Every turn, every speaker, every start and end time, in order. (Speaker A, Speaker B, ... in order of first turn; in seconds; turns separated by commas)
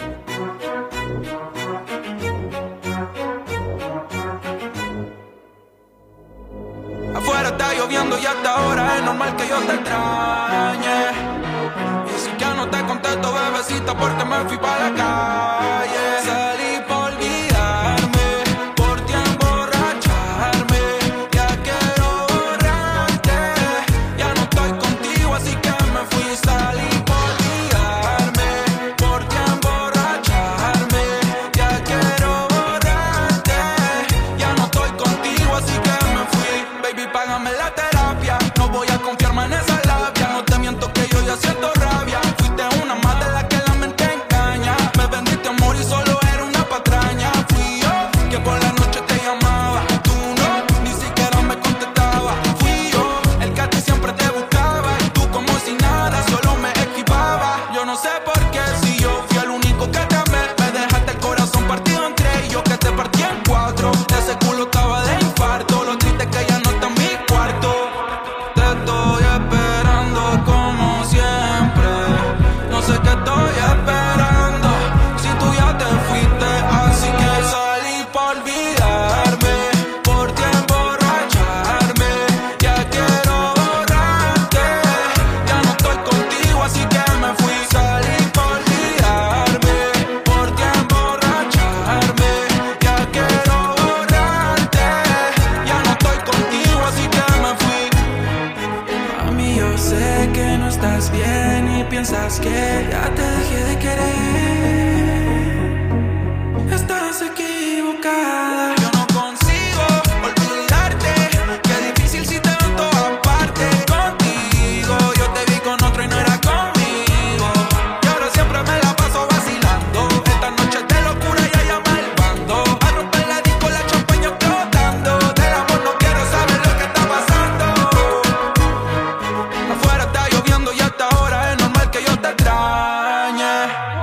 Speaker A: 7.1-11.2, Speaker A: 12.0-98.0, Speaker A: 99.1-105.0, Speaker A: 106.7-107.5, Speaker A: 108.5-128.4, Speaker A: 129.7-133.8